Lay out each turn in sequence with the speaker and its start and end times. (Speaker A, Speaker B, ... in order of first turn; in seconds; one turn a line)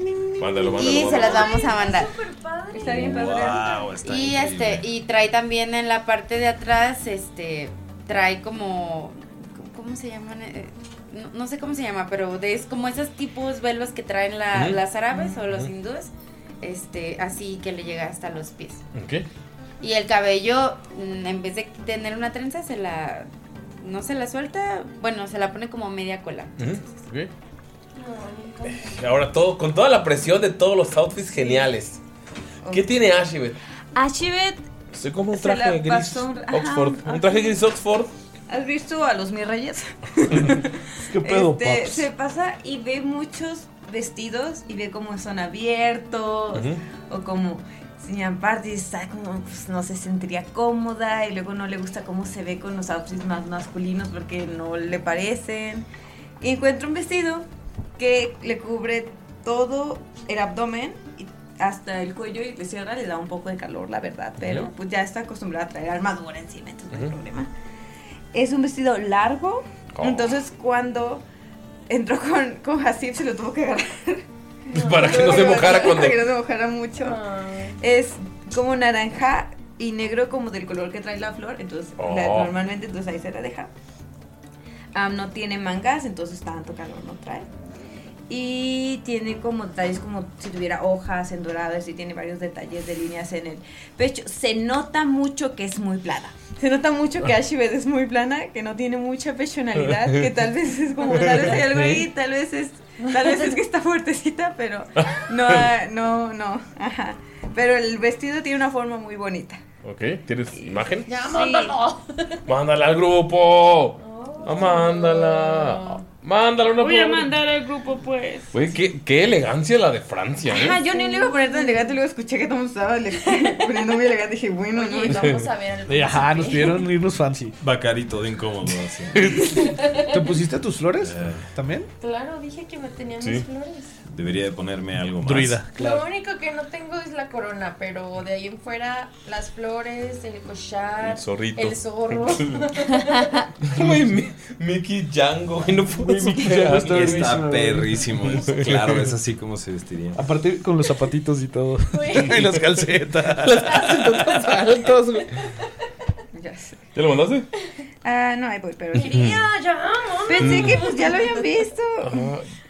Speaker A: 0.4-1.7
Speaker B: 0.7-2.1
Speaker C: 1.1-3.8
Speaker D: 2.7-3.8
Speaker E: 2.9-4.9
Speaker B: 4.0-18.8
Speaker A: 14.5-14.8
Speaker A: 15.4-15.7
Speaker A: 18.9-19.2
Speaker B: 19.8-23.3
Speaker B: 23.8-27.0
Speaker A: 26.6-27.3
Speaker C: 27.9-29.1
Speaker A: 28.7-32.0
Speaker D: 32.6-32.9
Speaker A: 32.7-33.6
Speaker D: 33.9-34.6
Speaker A: 34.9-38.1
Speaker D: 35.3-37.5
Speaker D: 38.5-55.9
Speaker F: 40.3-42.1
Speaker A: 46.5-46.8
Speaker D: 56.4-57.5
Speaker D: 58.0-67.5
Speaker A: 64.4-64.7
Speaker D: 68.3-71.2
Speaker A: 69.9-70.3
Speaker D: 71.9-74.2
Speaker C: 74.7-76.0
Speaker A: 74.7-76.2
Speaker D: 74.9-77.2
Speaker C: 77.0-77.8
Speaker D: 77.8-83.7
Speaker A: 82.0-82.5
Speaker D: 84.9-87.5
Speaker D: 88.3-109.6
Speaker A: 101.2-102.0
Speaker C: 103.0-103.5
Speaker A: 109.8-111.1
Speaker D: 110.6-111.8
Speaker C: 111.1-112.4
Speaker A: 112.5-117.4
Speaker C: 114.0-116.0
Speaker D: 116.8-118.5
Speaker A: 118.5-120.8
Speaker D: 120.5-125.4
Speaker C: 120.8-121.9
Speaker C: 123.2-123.7
Speaker C: 124.7-126.9
Speaker A: 125.1-125.4
Speaker F: 125.9-127.5
Speaker E: 127.6-129.4
Speaker C: 129.5-130.3
Speaker F: 129.9-131.9
Speaker E: 131.0-131.5
Speaker C: 132.0-133.9
Speaker E: 134.1-135.6
Speaker F: 135.2-136.1
Speaker C: 135.8-143.5
Speaker A: 141.0-142.6
Speaker A: 143.6-147.4
Speaker F: 145.9-148.4
Speaker E: 146.9-150.2
Speaker A: 148.2-149.1
Speaker F: 150.2-154.2
Speaker C: 151.9-152.4
Speaker A: 152.3-152.6
Speaker A: 153.3-155.3
Speaker D: 156.3-156.8
Speaker A: 156.9-157.5
Speaker D: 158.0-159.4
Speaker C: 158.9-161.4
Speaker A: 158.9-159.4
Speaker D: 160.2-162.3
Speaker A: 160.4-160.8
Speaker A: 162.0-162.5